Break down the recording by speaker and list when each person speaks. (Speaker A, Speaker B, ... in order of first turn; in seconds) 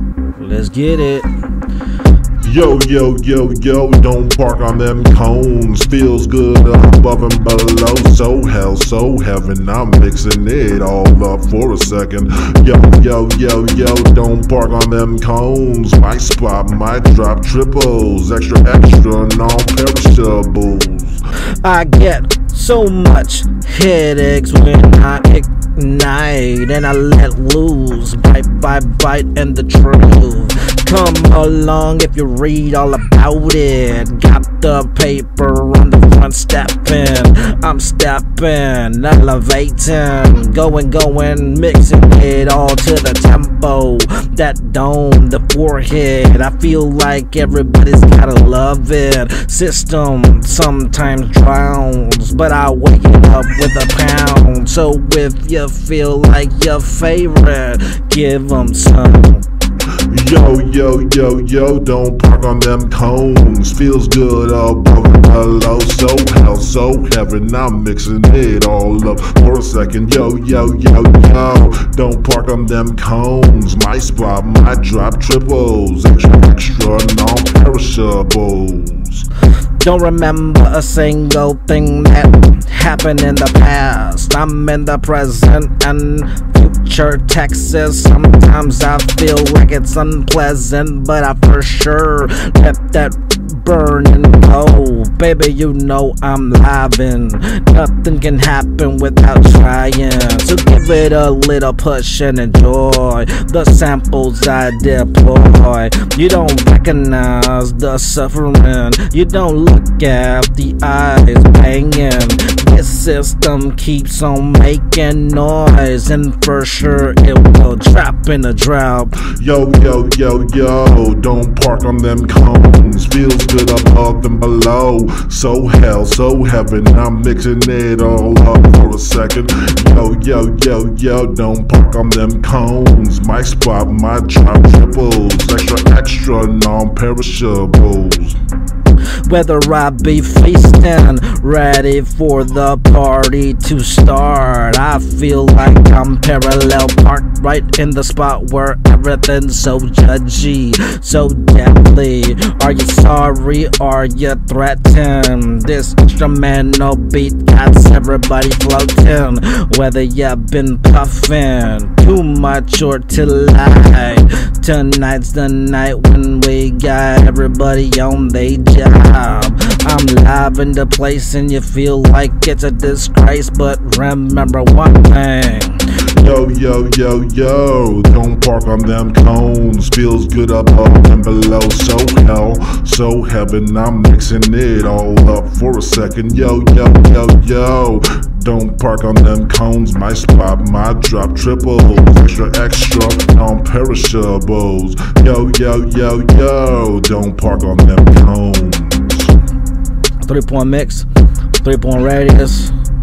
Speaker A: 0.3-1.3, 21.6-59.5, 79.8-119.2, 139.3-175.8, 200.2-201.1, 201.6-202.7
Speaker B: 2.4-21.2, 60.1-79.3, 119.2-138.4, 176.2-199.3